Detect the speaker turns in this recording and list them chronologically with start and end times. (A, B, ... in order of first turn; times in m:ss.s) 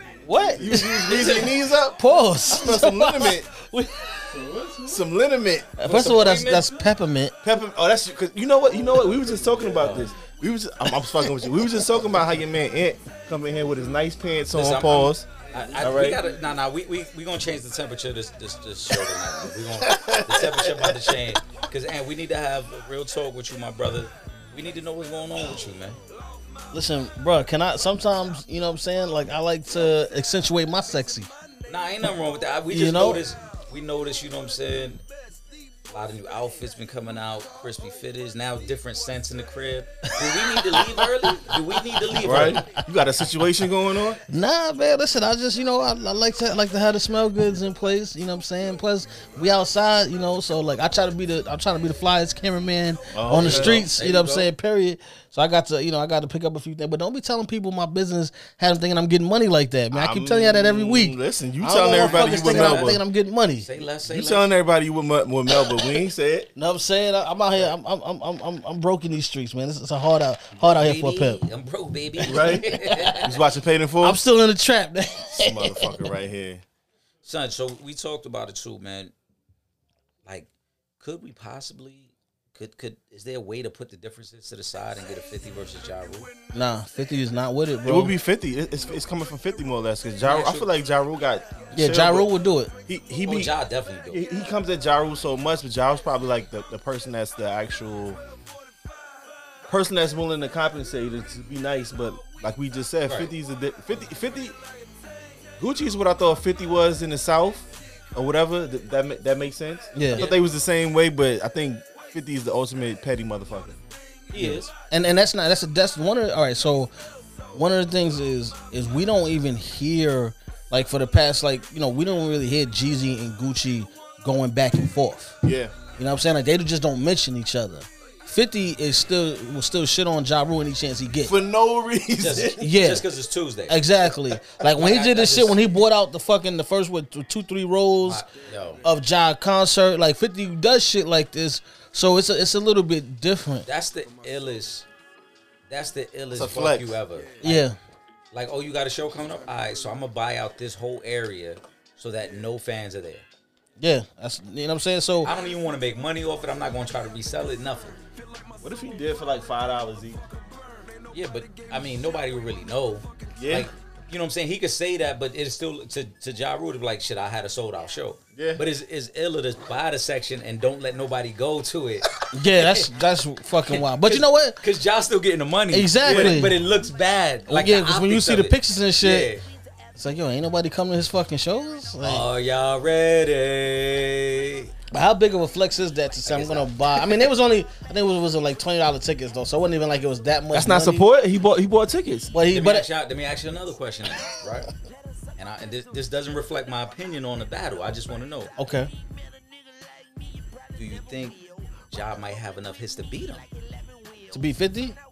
0:00.2-0:04.5 A
0:00.5-0:03.5 B
0:01.0-0:01.6 C
0:04.3-0:05.7 B
0:05.8-0:07.4 A
0:05.8-0:06.7 C
0:07.4-0:16.2 B
0:09.4-0:10.1 C
0:11.4-0:11.7 A
0:14.5-0:26.0 C
0:19.8-0:21.2 B
0:26.7-0:31.3 A
0:31.7-0:35.0 C
0:32.7-0:33.2 A
0:35.9-0:42.6 C
0:40.1-0:42.8 A
0:42.1-0:44.2 B
0:44.3-1:03.7 A
0:53.1-0:53.9 B
0:53.3-0:54.5 C
0:59.9-1:03.0 B
1:01.9-1:03.0 C
1:03.6-1:04.5 C
1:04.1-1:06.5 B
1:06.6-1:11.4 A
1:10.6-1:13.4 C
1:12.2-1:12.7 B
1:12.3-1:13.3 A
1:13.2-1:14.2 B
1:14.0-1:16.0 A
1:15.4-1:16.6 B
1:17.2-1:19.1 C
1:21.0-1:26.3 C
1:26.5-1:28.1 A
1:27.8-1:32.3 B
1:30.2-1:30.7 C
1:31.7-1:32.7 A
1:32.9-1:33.5 B
1:33.2-1:34.2 C
1:34.1-1:38.2 B
1:39.7-1:44.6 B
1:43.0-1:43.3 C
1:45.6-1:53.8 B
1:49.9-1:50.3 A
1:54.3-1:54.7 C
1:54.4-1:56.9 A
1:57.5-2:05.4 A
2:05.4-2:05.7 B
2:06.0-2:11.4 A
2:11.2-2:12.6 B
2:12.2-2:13.8 C
2:12.6-2:13.0 A
2:13.7-2:18.2 A
2:14.6-2:15.6 C
2:18.0-2:18.8 C
2:18.8-2:23.7 A
2:23.6-2:24.9 C
2:25.7-2:27.6 C
2:26.3-2:27.0 B
2:27.4-2:27.8 A
2:28.3-2:33.2 C
2:33.8-2:35.3 A
2:35.2-2:38.0 C
2:38.6-2:40.2 B
2:41.1-2:52.9 C
2:43.4-2:43.7 B
2:48.4-2:48.6 B
2:52.3-2:54.6 A
2:53.6-2:59.4 C
2:55.7-2:56.5 A
2:56.0-2:56.4 B
2:57.5-2:59.3 A
3:00.0-3:02.2 A
3:02.0-3:04.7 C
3:04.9-3:11.1 A
3:06.3-3:07.0 C
3:10.5-3:12.3 B
3:12.3-3:12.9 A
3:12.5-3:14.7 C
3:15.4-3:18.5 C
3:18.6-3:18.9 A
3:20.8-3:23.4 C
3:24.3-3:25.0 A